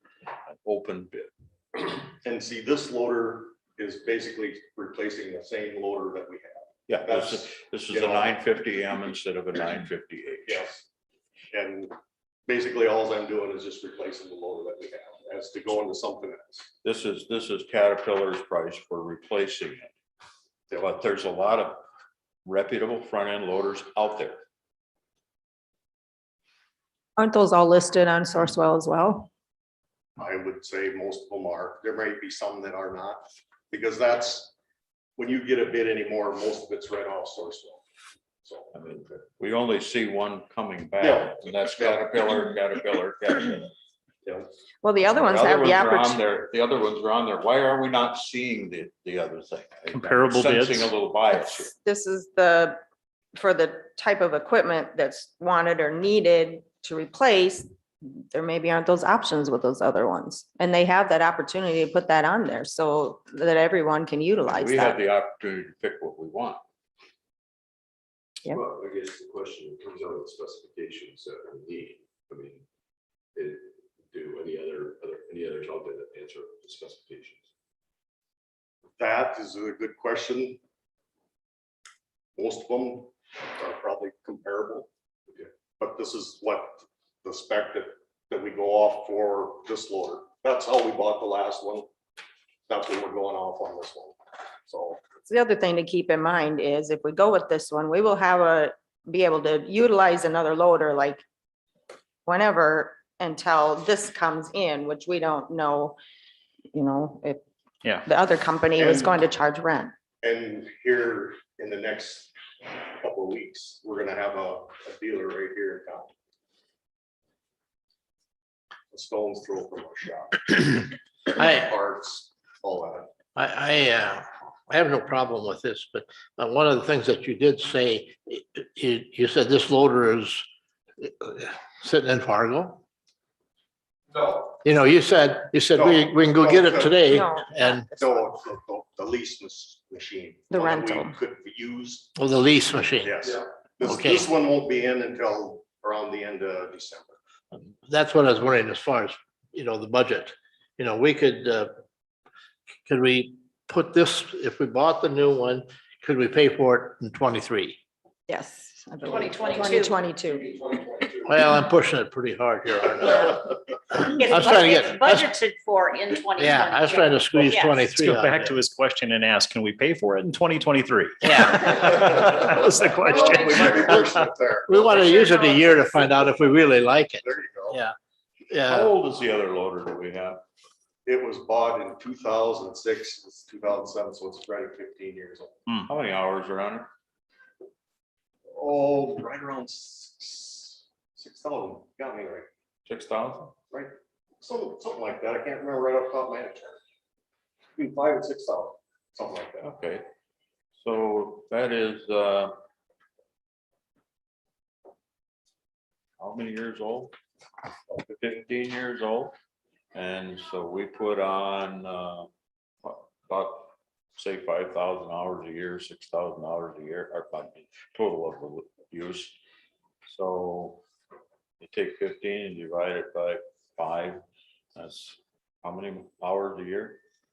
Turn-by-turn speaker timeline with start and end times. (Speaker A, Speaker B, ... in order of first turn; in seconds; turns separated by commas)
Speaker A: 0.6-1.3, Speaker B: 2.2-8.3, Speaker A: 6.9-10.7, Speaker B: 10.5-10.8, Speaker B: 11.5-11.9, Speaker B: 12.5-16.7, Speaker A: 16.8-19.9, Speaker A: 20.7-21.8, Speaker A: 22.4-24.4, Speaker C: 27.2-29.3, Speaker B: 30.2-34.5, Speaker B: 35.2-37.8, Speaker B: 38.4-38.7, Speaker A: 38.7-43.7, Speaker B: 41.0-42.0, Speaker C: 44.8-46.2, Speaker A: 45.1-51.7, Speaker D: 49.9-50.9, Speaker C: 51.7-52.8, Speaker C: 53.4-65.0, Speaker A: 64.5-66.6, Speaker E: 68.5-72.6, Speaker E: 73.3-77.5, Speaker B: 79.0-80.6, Speaker B: 82.4-84.9, Speaker B: 85.8-91.9, Speaker B: 92.7-95.0, Speaker C: 95.3-101.2, Speaker C: 102.3-106.0, Speaker C: 106.7-107.4, Speaker C: 108.0-109.9, Speaker B: 108.8-109.2, Speaker B: 110.2-116.1, Speaker B: 118.9-123.1, Speaker F: 123.3-130.4, Speaker F: 131.0-132.8, Speaker F: 134.6-137.9, Speaker B: 135.8-137.0, Speaker C: 137.1-138.2, Speaker B: 137.9-142.1, Speaker C: 140.5-141.1, Speaker F: 142.2-143.3, Speaker B: 143.0-147.2, Speaker F: 143.8-144.3, Speaker F: 147.5-151.7, Speaker F: 152.9-157.8, Speaker C: 158.3-161.0, Speaker G: 159.1-160.0, Speaker F: 161.2-165.3, Speaker G: 164.0-167.9, Speaker F: 166.3-168.6, Speaker D: 167.8-174.1, Speaker F: 171.2-172.1, Speaker B: 173.0-177.8, Speaker F: 173.2-174.0, Speaker F: 174.7-177.9, Speaker F: 178.5-178.9, Speaker A: 178.7-180.4, Speaker B: 181.1-185.6, Speaker A: 185.8-186.9, Speaker B: 188.5-192.5, Speaker A: 192.9-193.5, Speaker B: 193.7-196.8, Speaker B: 197.8-199.7, Speaker A: 199.6-200.0, Speaker A: 200.8-202.5, Speaker A: 206.2-207.1, Speaker A: 207.9-209.3, Speaker A: 209.9-212.3, Speaker A: 212.8-219.3, Speaker A: 220.1-220.8, Speaker A: 221.6-224.2, Speaker A: 224.8-227.0